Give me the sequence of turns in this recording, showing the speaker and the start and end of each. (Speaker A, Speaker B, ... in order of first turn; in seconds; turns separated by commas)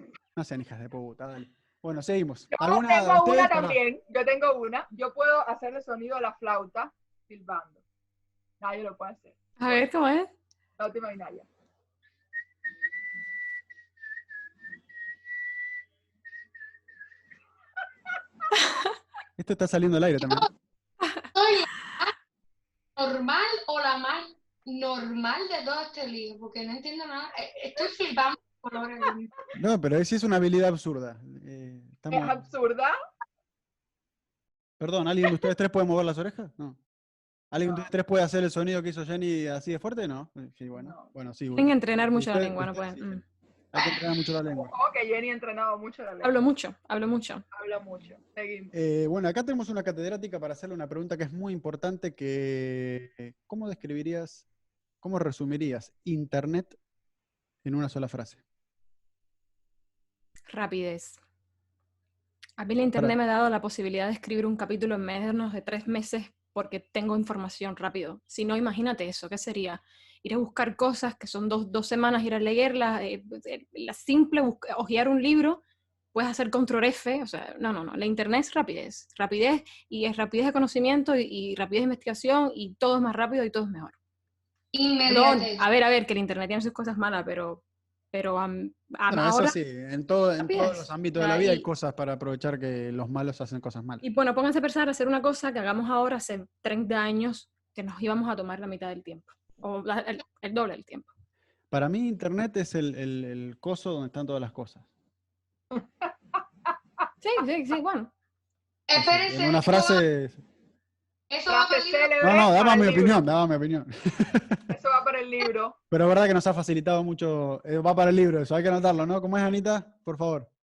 Speaker A: 0.3-3.8, Speaker B: 2.5-7.8, Speaker B: 8.6-9.8, Speaker C: 9.6-10.3, Speaker B: 10.8-11.5, Speaker C: 18.6-18.9, Speaker A: 19.4-20.5, Speaker D: 21.3-22.1, Speaker D: 23.0-29.3, Speaker A: 29.6-32.4, Speaker B: 32.1-33.0, Speaker A: 34.8-36.8, Speaker A: 37.5-43.2, Speaker B: 40.8-41.1, Speaker C: 41.5-43.2, Speaker A: 43.7-44.7, Speaker B: 43.8-46.4, Speaker C: 46.2-47.4, Speaker B: 47.5-48.7, Speaker A: 48.7-54.5, Speaker A: 55.0-56.8, Speaker A: 57.6-58.4, Speaker C: 60.5-61.2, Speaker C: 62.6-75.6, Speaker C: 76.1-84.0, Speaker D: 84.7-85.6, Speaker C: 85.1-89.6, Speaker A: 89.1-94.0, Speaker C: 90.4-90.9, Speaker D: 91.2-91.6, Speaker C: 94.0-101.1, Speaker A: 101.7-104.8, Speaker B: 105.7-106.1, Speaker C: 107.2-108.1, Speaker D: 108.9-110.0, Speaker A: 108.9-110.4, Speaker D: 111.3-112.1, Speaker B: 111.5-113.2, Speaker A: 112.2-114.7, Speaker B: 114.7-115.8, Speaker A: 115.9-120.5